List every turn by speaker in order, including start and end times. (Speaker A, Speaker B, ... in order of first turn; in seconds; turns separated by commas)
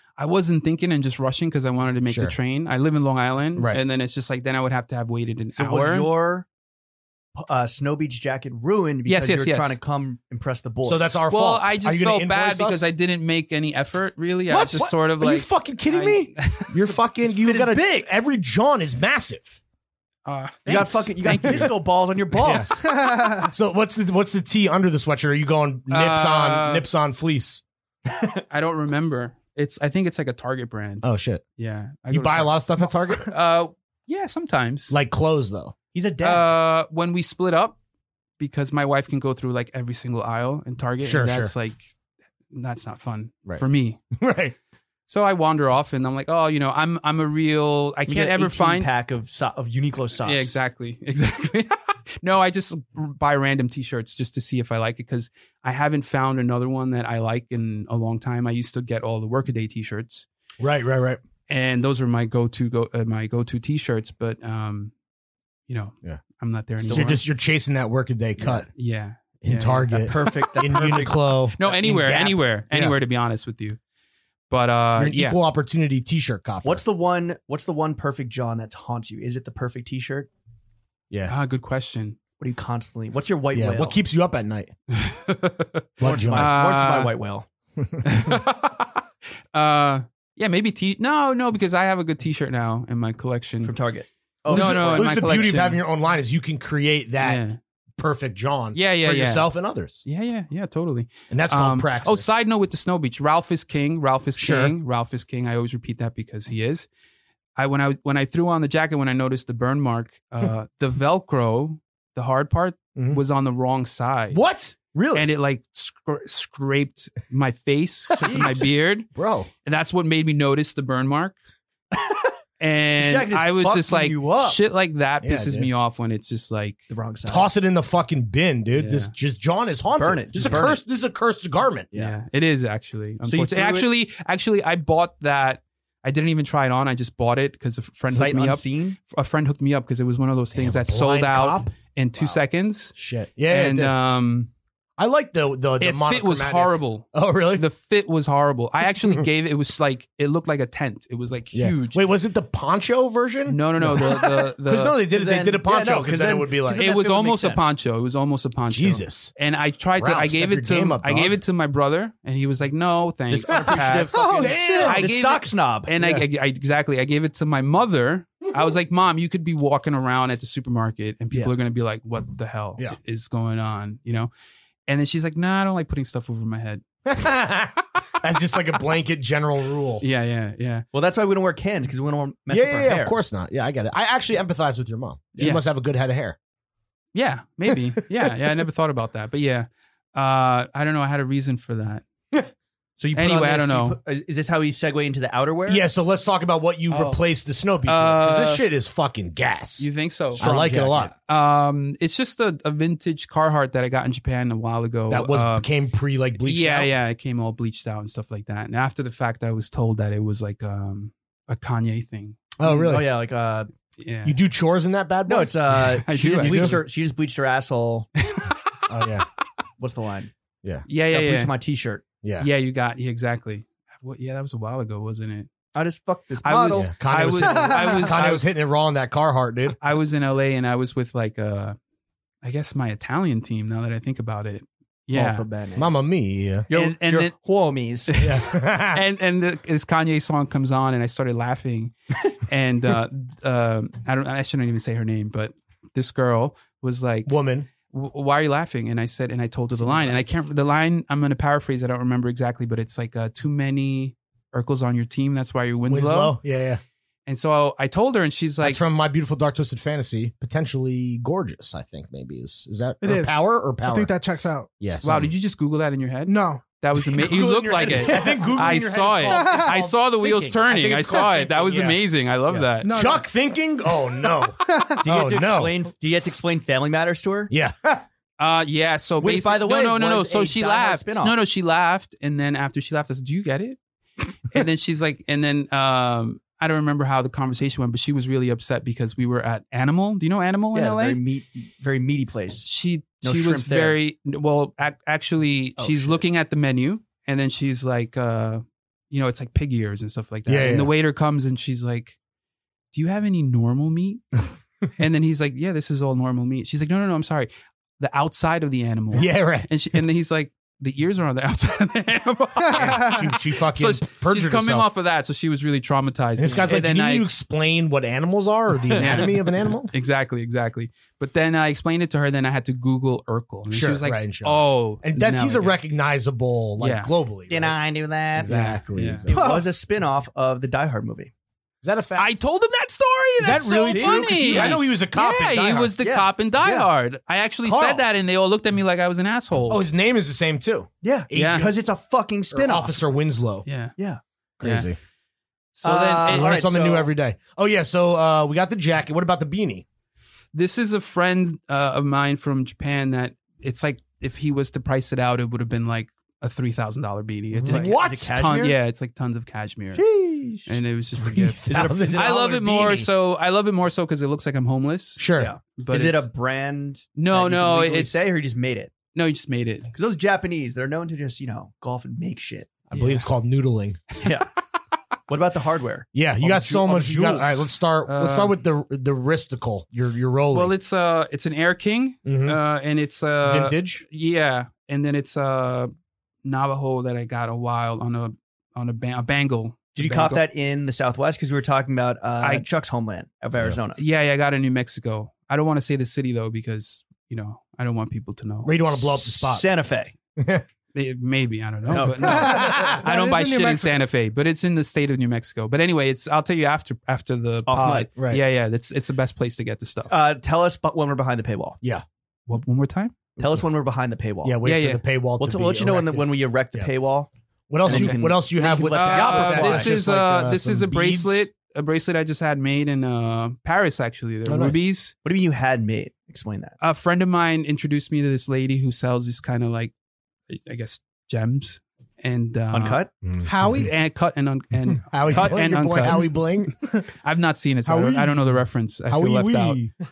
Speaker A: 0.2-6.1, Speaker B: 2.1-2.3, Speaker B: 3.5-3.8, Speaker C: 5.5-6.5, Speaker C: 7.3-11.2, Speaker A: 9.1-9.8, Speaker B: 10.8-12.9, Speaker A: 11.3-16.7, Speaker B: 14.5-19.6, Speaker C: 17.2-18.1, Speaker A: 20.2-21.7, Speaker C: 20.7-22.8, Speaker B: 22.4-27.6, Speaker D: 22.8-23.5, Speaker A: 25.9-26.9, Speaker C: 28.1-28.4, Speaker A: 28.5-31.1, Speaker B: 31.0-31.4, Speaker A: 31.6-32.6, Speaker B: 32.1-33.3, Speaker A: 33.2-34.9, Speaker B: 34.9-35.7, Speaker C: 35.9-36.5, Speaker A: 36.2-37.7, Speaker A: 38.4-41.9, Speaker B: 41.0-41.5, Speaker A: 42.5-44.0, Speaker B: 44.1-44.5, Speaker A: 45.1-48.9, Speaker C: 48.1-50.5, Speaker A: 50.2-60.2, Speaker B: 60.6-61.2, Speaker A: 61.5-64.9, Speaker A: 65.7-67.2, Speaker C: 66.8-67.2, Speaker B: 66.8-68.7, Speaker A: 68.7-70.3, Speaker B: 69.4-73.0, Speaker C: 70.0-71.2, Speaker A: 71.6-73.8, Speaker A: 74.5-75.4, Speaker B: 75.0-76.8, Speaker C: 76.6-80.3, Speaker A: 81.3-82.2, Speaker C: 82.4-84.0, Speaker B: 83.5-84.7, Speaker A: 84.9-87.1, Speaker B: 86.0-86.5, Speaker C: 86.0-87.5, Speaker B: 87.8-88.4, Speaker A: 88.0-88.9, Speaker A: 89.5-93.7, Speaker C: 93.6-95.5, Speaker A: 94.5-95.8, Speaker B: 94.5-97.4, Speaker A: 97.2-97.6, Speaker B: 98.0-100.0, Speaker A: 98.7-99.5, Speaker A: 100.0-106.9, Speaker B: 101.3-102.3, Speaker B: 104.4-104.7, Speaker A: 107.5-114.4, Speaker B: 112.9-113.2, Speaker B: 114.3-115.3, Speaker A: 115.1-119.1, Speaker B: 118.2-119.5, Speaker C: 118.2-118.7, Speaker A: 119.6-121.3, Speaker A: 122.6-126.8, Speaker C: 123.0-124.6, Speaker B: 125.2-125.7, Speaker C: 126.9-127.5, Speaker B: 127.2-131.9, Speaker A: 128.7-129.1, Speaker C: 129.9-130.8, Speaker A: 130.4-130.7, Speaker A: 131.9-142.9, Speaker C: 133.2-133.9, Speaker C: 138.1-139.0, Speaker B: 140.5-141.7, Speaker B: 142.9-143.9, Speaker A: 143.5-144.5, Speaker B: 145.0-147.6, Speaker A: 145.8-152.0, Speaker B: 151.5-156.9, Speaker A: 153.5-155.0, Speaker C: 155.1-157.7, Speaker A: 156.7-174.3, Speaker B: 158.7-159.3, Speaker B: 160.0-161.4, Speaker C: 163.3-165.9, Speaker B: 163.5-165.1, Speaker D: 164.1-164.9, Speaker A: 174.9-176.8, Speaker B: 177.1-180.0, Speaker A: 180.0-180.8, Speaker C: 180.9-183.2, Speaker B: 182.5-186.4, Speaker A: 185.4-185.6, Speaker A: 187.1-192.0, Speaker B: 187.7-188.3, Speaker C: 193.0-195.8, Speaker A: 193.1-194.0, Speaker B: 195.7-201.1, Speaker A: 196.9-197.2, Speaker A: 197.8-198.6, Speaker A: 199.8-200.5, Speaker C: 200.4-201.1, Speaker A: 201.2-205.7, Speaker B: 205.1-206.9, Speaker A: 206.4-212.9, Speaker B: 212.6-213.1, Speaker C: 212.8-213.7, Speaker A: 214.0-214.4, Speaker B: 214.2-215.5, Speaker C: 215.3-218.1, Speaker A: 215.7-216.8, Speaker B: 216.3-216.8, Speaker A: 218.2-218.8, Speaker B: 218.9-219.2, Speaker C: 219.8-220.3, Speaker A: 220.9-221.5, Speaker C: 221.1-222.0, Speaker B: 222.2-222.5, Speaker A: 222.4-225.5, Speaker C: 225.7-226.9, Speaker A: 226.4-228.4, Speaker B: 226.7-229.8, Speaker A: 229.8-231.8, Speaker A: 232.4-235.4, Speaker C: 235.1-235.9, Speaker B: 235.8-236.7, Speaker C: 236.7-238.1, Speaker A: 236.7-237.3, Speaker A: 238.1-247.3, Speaker B: 238.2-239.0, Speaker B: 247.2-247.7, Speaker A: 247.9-256.4, Speaker C: 249.8-250.2, Speaker B: 255.9-256.8, Speaker A: 257.2-258.8, Speaker B: 258.6-264.1, Speaker D: 263.0-264.7, Speaker B: 264.8-265.3, Speaker A: 265.0-272.9, Speaker D: 266.3-266.6, Speaker B: 266.9-275.8, Speaker C: 267.9-268.5, Speaker D: 269.3-269.7, Speaker D: 272.8-273.2, Speaker D: 274.6-275.0, Speaker C: 275.0-277.5, Speaker B: 277.5-278.0, Speaker A: 278.4-283.8, Speaker C: 279.2-281.4, Speaker A: 284.5-291.2, Speaker C: 290.7-292.7, Speaker A: 292.6-302.1, Speaker C: 293.2-294.0, Speaker C: 295.8-296.2, Speaker B: 300.5-300.9, Speaker A: 302.9-304.2, Speaker A: 305.0-317.3, Speaker B: 309.1-309.7, Speaker D: 312.6-313.2, Speaker B: 312.7-314.9, Speaker B: 316.4-319.9, Speaker C: 318.9-319.3, Speaker A: 318.9-319.4, Speaker A: 319.9-325.8, Speaker B: 323.7-327.8, Speaker A: 326.8-327.1, Speaker C: 327.5-328.6, Speaker B: 328.3-329.6, Speaker A: 328.5-329.3, Speaker C: 329.2-331.3, Speaker D: 329.3-329.6, Speaker B: 331.8-332.3, Speaker A: 332.2-339.8, Speaker B: 333.4-335.9, Speaker C: 333.9-334.9, Speaker C: 335.5-336.9, Speaker B: 337.6-338.0, Speaker B: 339.7-341.8, Speaker C: 341.0-343.0, Speaker A: 341.3-341.7, Speaker B: 342.5-343.6, Speaker A: 343.6-343.9, Speaker B: 344.6-345.0, Speaker A: 344.6-344.9, Speaker A: 345.7-346.6, Speaker C: 345.8-347.1, Speaker B: 346.3-349.8, Speaker A: 350.5-360.0, Speaker B: 357.5-358.3, Speaker C: 357.7-358.8, Speaker C: 359.9-360.8, Speaker A: 360.6-365.2, Speaker B: 361.2-363.1, Speaker C: 361.7-362.6, Speaker B: 365.2-365.5, Speaker C: 365.4-368.9, Speaker A: 365.8-366.3, Speaker A: 367.2-368.2, Speaker A: 369.1-369.9, Speaker C: 369.9-372.8, Speaker B: 372.9-374.1, Speaker A: 372.9-373.2, Speaker C: 374.2-374.5, Speaker C: 375.3-377.6, Speaker B: 376.1-380.7, Speaker A: 378.1-378.6, Speaker A: 380.5-385.9, Speaker B: 382.2-382.6, Speaker B: 383.4-384.0, Speaker A: 386.4-390.4, Speaker C: 389.9-394.0, Speaker A: 393.9-398.8, Speaker B: 398.6-399.6, Speaker C: 398.9-400.1, Speaker B: 400.4-400.6, Speaker A: 400.9-410.1, Speaker C: 401.9-402.6, Speaker D: 402.2-404.0, Speaker B: 402.3-403.0, Speaker C: 407.7-408.1, Speaker B: 407.7-408.4, Speaker C: 410.1-411.8, Speaker A: 412.5-413.1, Speaker B: 413.4-413.6, Speaker C: 413.4-414.6, Speaker B: 414.4-416.9, Speaker A: 414.6-415.0, Speaker C: 415.4-417.3, Speaker B: 417.7-421.5, Speaker C: 417.8-419.9, Speaker A: 417.9-418.2, Speaker A: 418.9-425.1, Speaker B: 424.4-424.8, Speaker C: 425.2-426.8, Speaker A: 426.8-429.9, Speaker A: 430.5-433.1, Speaker C: 432.7-433.1, Speaker B: 433.2-433.9, Speaker D: 433.4-433.9, Speaker A: 433.6-436.4, Speaker B: 434.9-436.7, Speaker A: 437.2-439.8, Speaker B: 437.9-439.9